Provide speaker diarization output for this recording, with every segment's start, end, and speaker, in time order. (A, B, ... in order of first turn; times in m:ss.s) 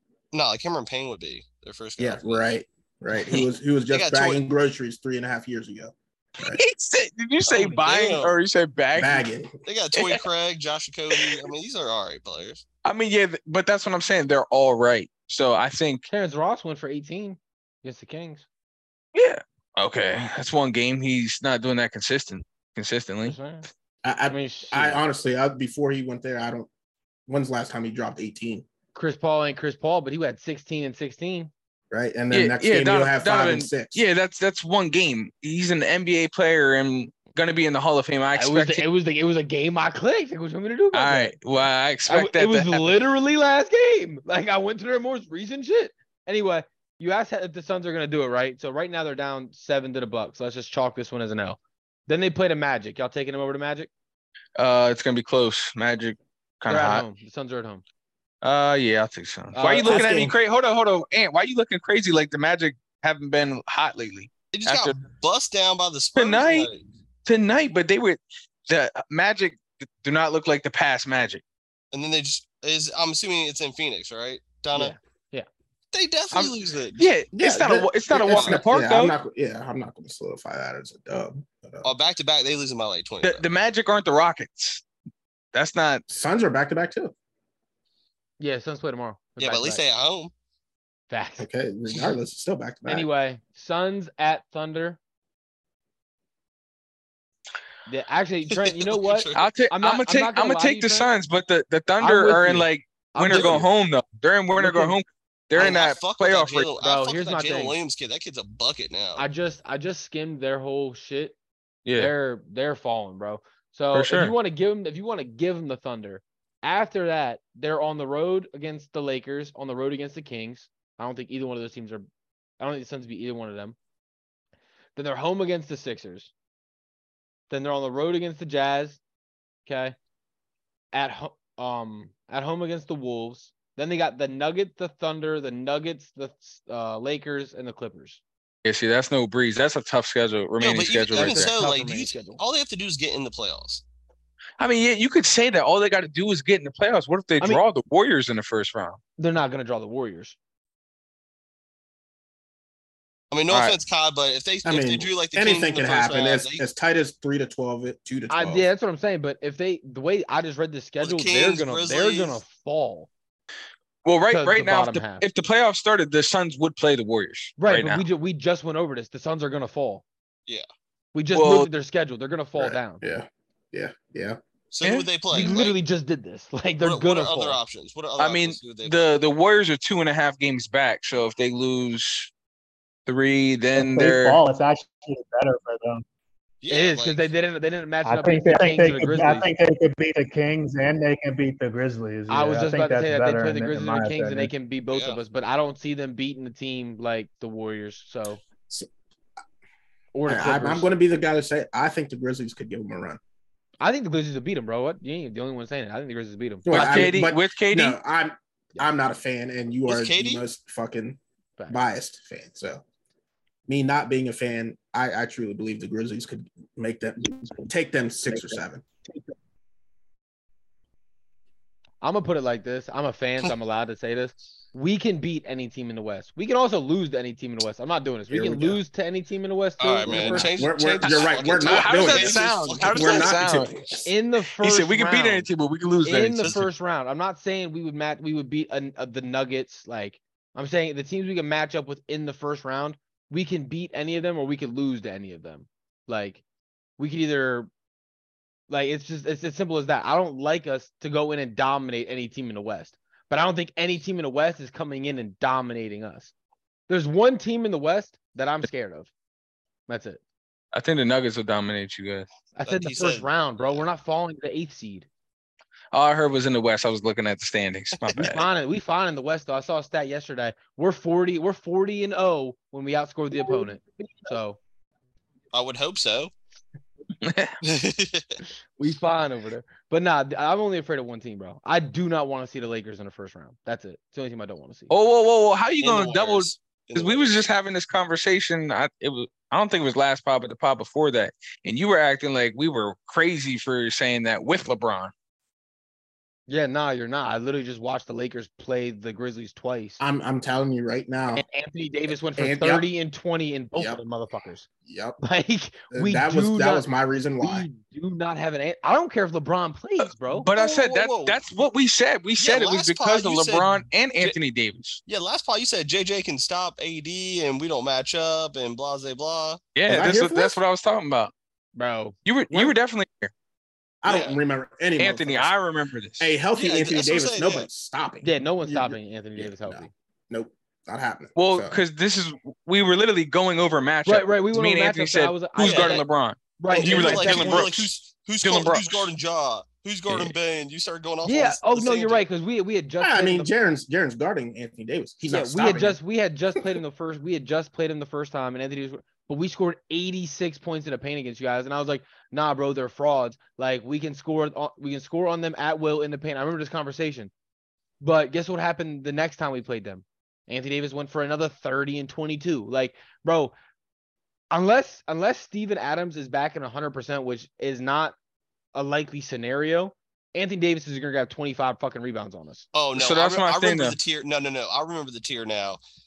0:00.3-0:02.5 A
0:02.0-0:06.6 B
0:03.2-0:03.5 C
0:03.9-0:04.4 A
0:06.4-0:09.3 C
0:07.5-0:08.4 A
0:09.0-0:09.6 B
0:09.7-0:12.6 A
0:09.9-0:10.2 C
0:11.1-0:11.5 C
0:12.8-0:16.1 C
0:16.1-0:18.4 D
0:19.1-0:23.4 C
0:23.2-0:23.7 D
0:24.0-0:26.7 B
0:24.3-0:25.0 D
0:27.3-0:28.6 B
0:29.0-0:31.5 D
0:31.9-0:34.0 B
0:32.3-0:38.8 C
0:38.4-0:41.4 D
0:40.9-0:42.9 C
0:42.1-0:53.9 D
0:54.6-0:57.0 C
0:56.7-0:57.8 D
0:58.4-1:05.0 C
0:59.5-1:00.0 D
0:59.8-1:00.4 B
1:04.5-1:06.8 A
1:06.2-1:06.7 C
1:07.2-1:11.4 C
1:11.9-1:14.9 A
1:14.7-1:15.5 D
1:15.9-1:17.2 A
1:16.3-1:19.1 C
1:17.3-1:21.9 B
1:18.3-1:18.6 A
1:21.8-1:23.4 A
1:23.2-1:24.8 C
1:25.5-1:26.0 C
1:26.1-1:27.1 B
1:28.4-1:29.8 D
1:29.4-1:30.3 A
1:31.1-1:31.5 D
1:31.4-1:33.1 B
1:32.9-1:35.0 D
1:37.9-1:41.1 D
1:38.5-1:39.5 A
1:39.4-1:46.7 C
1:42.0-1:43.7 D
1:44.6-1:45.0 D
1:45.6-1:49.2 A
1:46.8-1:47.8 D
1:49.2-1:51.4 D
1:51.8-1:52.1 C
1:52.0-2:02.0 D
1:53.9-1:54.4 C
2:02.6-2:03.8 D
2:05.0-2:06.3 D
2:07.5-2:09.0 D
2:09.7-2:10.0 D
2:10.9-2:18.2 D
2:18.6-2:21.6 C
2:20.6-2:23.8 A
2:21.1-2:22.4 D
2:24.6-2:29.0 C
2:29.2-2:30.4 D
2:33.3-2:36.6 A
2:33.5-2:33.8 C
2:34.6-2:38.7 B
2:38.3-2:43.1 D
2:41.0-2:42.4 A
2:44.0-2:48.0 C
2:44.3-2:45.2 D
2:47.6-2:50.0 D
2:51.1-2:53.0 D
2:51.3-2:51.7 C
2:52.6-2:54.4 B
2:54.7-2:55.8 A
2:54.8-2:55.4 C
2:55.3-2:57.6 D
2:56.8-2:59.1 A
2:58.2-3:02.3 C
3:03.1-3:04.4 C
3:03.8-3:06.0 E
3:06.6-3:07.2 A
3:06.7-3:09.5 D
3:08.0-3:14.5 E
3:12.3-3:18.4 D
3:14.9-3:15.2 A
3:20.1-3:20.9 D
3:20.3-3:23.2 B
3:23.8-3:27.1 D
3:26.7-3:31.2 B
3:26.7-3:28.0 C
3:29.9-3:30.4 A
3:31.7-3:32.8 B
3:33.7-3:38.8 B
3:42.0-3:50.5 D
3:48.3-3:48.8 B
3:49.8-3:53.4 A
3:50.1-3:54.1 B
3:51.0-3:53.9 C
3:54.0-3:55.5 D
3:54.6-3:56.6 C
3:56.0-4:06.4 D
4:07.0-4:07.7 D
4:08.7-4:16.3 D
4:16.9-4:19.1 D
4:19.9-4:20.2 D
4:20.7-4:22.3 C
4:22.6-4:25.1 D
4:22.7-4:23.8 A
4:25.9-4:28.4 C
4:28.1-4:34.6 D
4:35.5-4:36.3 A
4:37.2-4:37.6 C
4:37.6-4:38.4 A
4:38.8-4:44.9 D
4:44.9-4:55.1 C
4:45.8-4:47.5 A
4:56.5-5:00.0 D
5:00.0-5:01.4 B
5:01.4-5:04.7 D
5:02.4-5:02.9 B
5:04.9-5:05.2 B
5:05.2-5:06.9 D
5:05.9-5:07.7 B
5:07.4-5:10.5 D
5:10.0-5:15.0 C
5:10.5-5:11.4 A
5:12.4-5:14.4 A
5:15.1-5:19.6 A
5:19.8-5:21.3 C
5:19.9-5:20.6 B
5:21.8-5:22.7 D
5:22.2-5:23.3 C
5:24.0-5:25.5 B
5:24.1-5:24.4 A
5:25.0-5:26.3 C
5:26.2-5:31.8 B
5:26.5-5:27.7 A
5:28.2-5:29.9 D
5:31.4-5:37.9 C
5:34.0-5:36.0 D
5:35.6-5:36.0 A
5:36.6-5:37.7 D
5:36.7-5:42.2 A
5:38.4-5:39.1 C
5:40.1-5:40.4 C
5:41.2-5:43.5 D
5:43.0-5:46.0 B
5:45.3-5:57.3 D
5:58.0-6:03.5 D
6:04.5-6:08.2 D
6:08.8-6:12.7 D
6:12.7-6:15.8 A
6:13.0-6:14.0 C